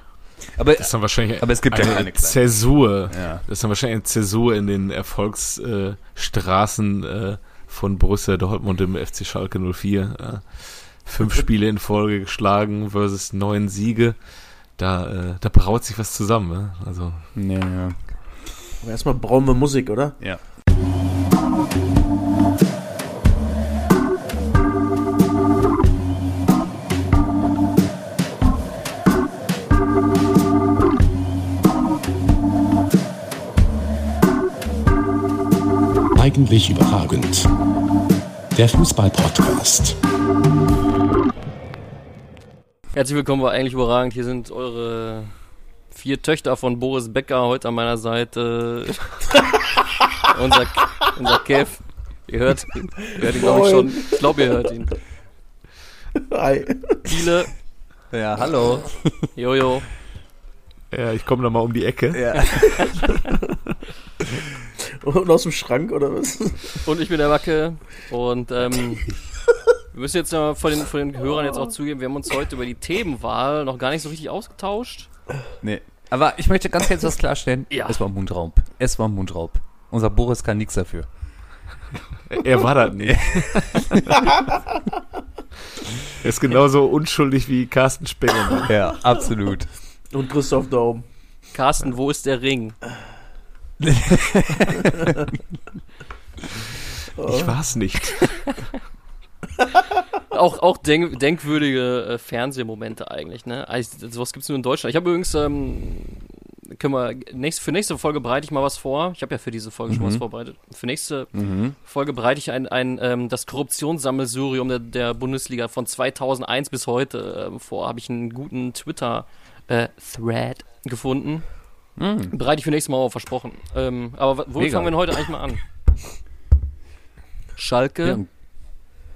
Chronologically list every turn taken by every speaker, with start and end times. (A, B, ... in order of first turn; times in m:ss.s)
0:00.6-0:03.4 A
0:00.8-0:17.3 B
0:17.3-0:18.0 A
0:18.8-0:20.2 C
0:36.2-0:37.5 D
0:38.5-0:40.0 D
0:42.9-0:49.3 E
0:50.2-0:55.0 E
0:53.2-0:53.6 A
0:53.2-0:54.5 C
0:56.2-0:57.3 C
0:57.0-0:57.5 E
0:58.1-0:59.3 A
0:59.3-0:59.9 E
1:00.9-1:02.5 B
1:02.1-1:02.9 A
1:05.0-1:06.8 C
1:06.8-1:09.1 E
1:09.9-1:15.1 E
1:15.6-1:21.1 A
1:17.7-1:18.0 E
1:22.2-1:24.2 B
1:23.0-1:24.2 A
1:26.2-1:28.7 B
1:28.6-1:29.7 A
1:30.1-1:31.0 C
1:31.5-1:32.8 E
1:33.8-1:35.1 A
1:37.2-1:37.5 C
1:37.3-1:38.4 B
1:40.3-2:01.7 E
1:49.9-1:50.2 A
1:51.3-1:51.8 A
2:02.0-2:02.3 A
2:02.3-2:05.6 E
2:04.6-2:04.9 A
2:07.6-2:08.2 E